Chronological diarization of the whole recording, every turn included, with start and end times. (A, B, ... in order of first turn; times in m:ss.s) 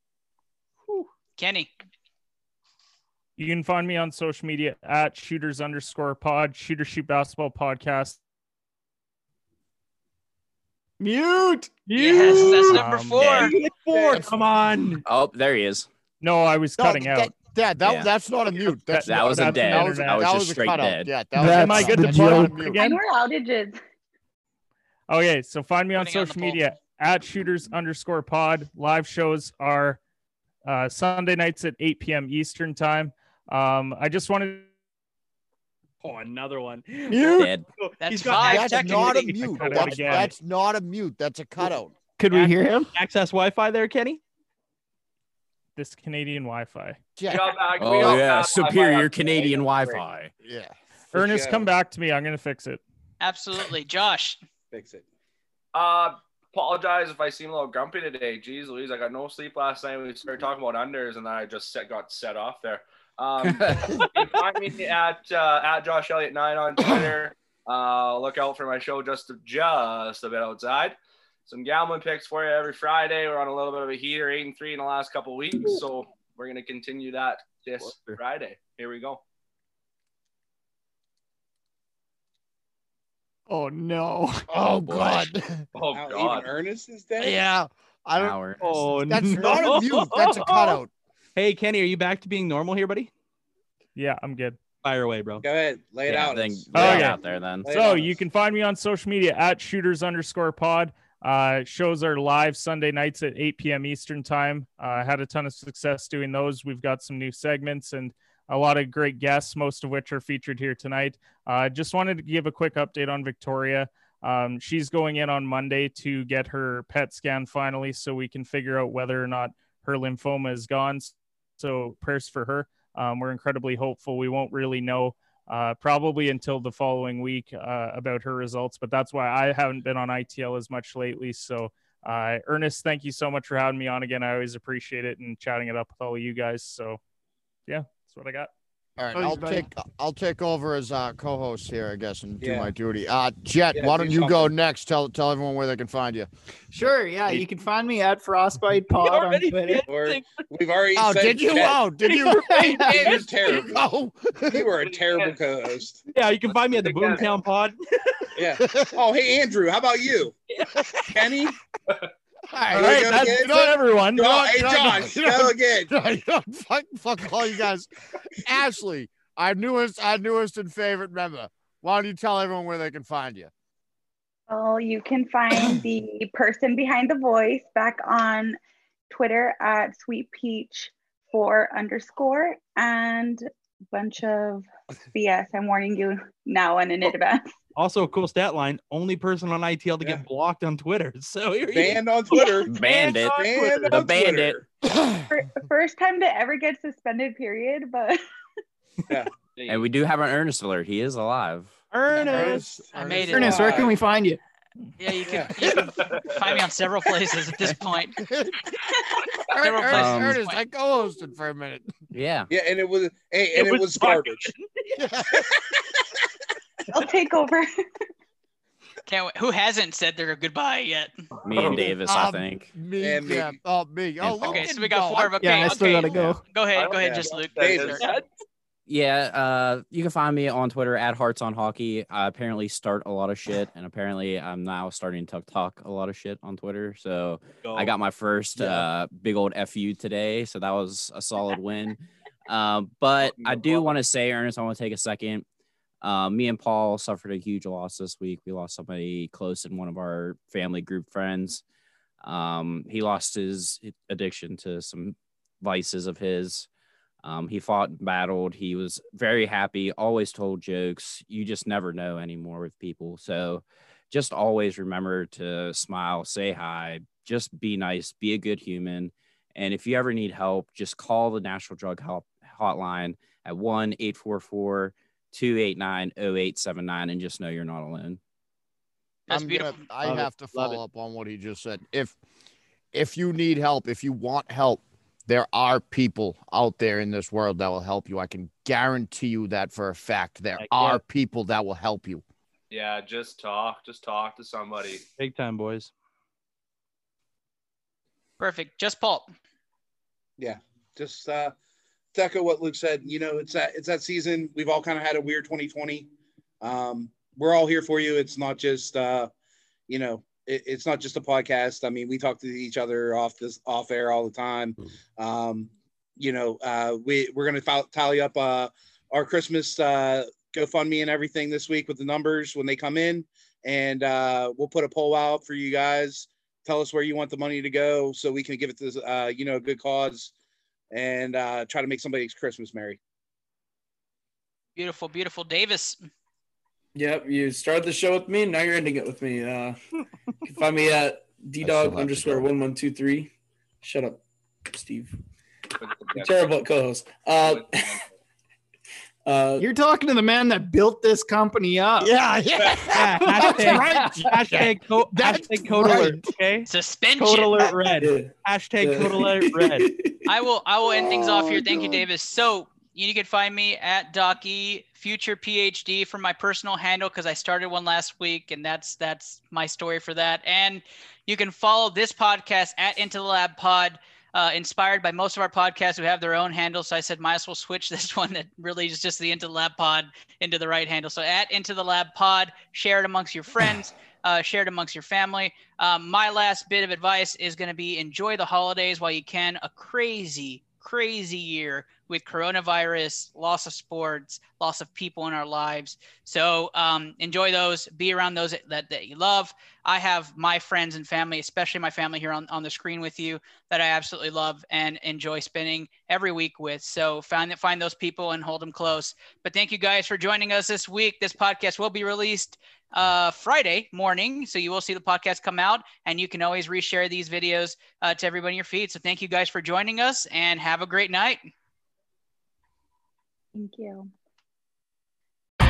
0:01.4-0:01.7 A
0:03.4-0:08.2 B
0:11.0-0:12.6 C
0:11.9-0:12.8 D
0:11.9-0:13.5 A
0:12.7-0:13.2 B
0:13.2-0:13.5 E
0:13.4-0:15.0 D
0:13.9-0:14.2 F
0:15.0-0:15.9 E
0:16.2-0:17.3 B
0:16.8-0:22.8 G
0:17.8-0:18.1 E
0:18.9-0:20.3 B
0:19.0-0:21.9 E
0:21.3-0:23.0 B
0:21.4-0:22.4 D
0:22.8-0:23.8 H
0:25.1-0:30.0 B
0:26.0-0:26.6 A
0:30.6-0:34.7 B
0:36.0-0:40.3 D
0:37.1-0:37.5 C
0:37.3-0:37.6 E
0:38.0-0:39.6 A
0:38.4-0:41.9 G
0:39.4-0:40.3 B
0:42.2-0:42.9 C
0:42.3-0:44.2 D
0:45.8-0:47.0 B
0:47.2-0:48.1 G
0:47.2-0:50.0 I
0:47.8-0:50.3 E
0:50.4-0:50.7 G
0:51.1-0:52.8 B
0:51.2-0:51.6 F
0:53.2-0:54.4 A
0:54.7-0:55.0 F
0:55.7-1:19.2 I
1:03.4-1:03.9 E
1:17.8-1:18.2 D
1:23.5-1:24.5 C
1:24.5-1:25.6 G
1:24.9-1:25.3 E
1:25.7-1:26.5 I
1:25.9-1:27.4 F
1:27.2-1:30.9 G
1:28.2-1:28.9 E
1:28.6-1:30.8 D
1:31.4-1:33.1 D
1:34.0-1:34.6 B
1:34.8-1:35.4 D
1:35.4-1:37.1 F
1:36.0-1:37.8 E
1:36.7-2:17.0 B
1:37.6-1:38.2 F
2:17.7-2:18.5 B
2:19.0-2:26.3 G
2:19.1-2:19.7 C
2:22.4-2:22.7 F
2:23.7-2:24.5 F
2:26.7-2:29.8 C
2:28.9-2:30.4 D
2:29.9-2:31.8 F
2:31.0-2:34.7 G
2:32.0-2:33.6 D
2:32.5-2:33.3 C
2:33.1-2:33.7 F
2:34.5-2:36.0 F
2:34.8-2:35.4 I
2:36.1-2:37.8 D
2:36.5-2:37.4 I
2:38.4-2:40.3 F
2:38.6-2:39.0 G
2:41.1-2:41.5 F
2:42.5-2:53.5 G
2:42.7-2:44.4 B
2:42.7-2:45.9 F
2:54.5-2:58.6 H
2:59.1-3:07.5 H
3:07.8-3:12.0 D
3:11.7-3:12.8 F
3:12.7-3:14.6 E
3:12.7-3:14.0 D
3:13.3-3:14.6 F
3:14.8-3:15.2 G
3:15.3-3:18.2 H
3:19.5-3:19.9 I
3:19.7-3:21.8 E
3:21.9-3:22.7 D
3:22.1-3:23.9 G
3:22.3-3:22.6 F
3:23.0-3:23.8 A
3:23.3-3:24.4 C
3:23.4-3:23.9 F
3:25.0-3:28.2 A
3:25.6-3:26.6 I
3:28.2-3:28.6 G
3:29.5-3:31.9 G
3:29.6-3:30.6 A
3:29.9-3:30.4 E
3:32.1-3:32.5 E
3:32.5-3:34.5 F
3:33.5-3:34.7 D
3:35.0-3:35.5 G
3:36.9-3:37.6 H
3:39.0-3:41.1 A
3:41.4-3:42.7 E
3:41.5-3:42.0 I
3:41.8-3:45.7 G
3:43.0-3:43.6 F
3:44.2-3:44.7 E
3:44.4-3:48.0 A
3:45.4-3:46.4 C
3:46.8-3:48.2 I
3:47.0-3:48.0 F
3:47.6-3:48.2 D
3:48.9-4:05.4 E
3:57.6-3:57.9 D
4:03.2-4:04.0 I
4:06.0-4:11.6 E
4:12.2-4:16.7 E
4:17.2-4:38.2 E
4:39.3-4:39.8 A
4:39.3-4:42.2 G
4:40.0-4:40.8 D
4:42.9-4:52.2 G
4:50.6-4:51.0 D
4:52.7-4:55.0 I
4:55.2-4:55.9 D
4:58.4-4:59.3 A
5:00.4-5:01.5 F
5:02.1-5:06.1 F
5:06.6-5:09.3 F
5:09.9-5:30.3 F
5:30.9-5:33.0 F
5:34.8-5:36.0 A
5:36.9-5:39.8 J
5:40.4-5:43.3 J
5:41.6-5:42.4 G
5:43.8-5:45.1 J
5:45.8-5:46.6 I
5:46.1-5:48.0 J
5:47.3-5:48.0 I
5:49.2-5:49.7 J
5:49.6-5:52.1 C
5:52.0-5:56.3 G
5:52.9-5:59.9 D
5:56.7-5:57.7 A
5:57.8-6:00.3 J
6:00.2-7:01.4 A
6:00.8-6:02.0 J
7:03.5-7:04.1 H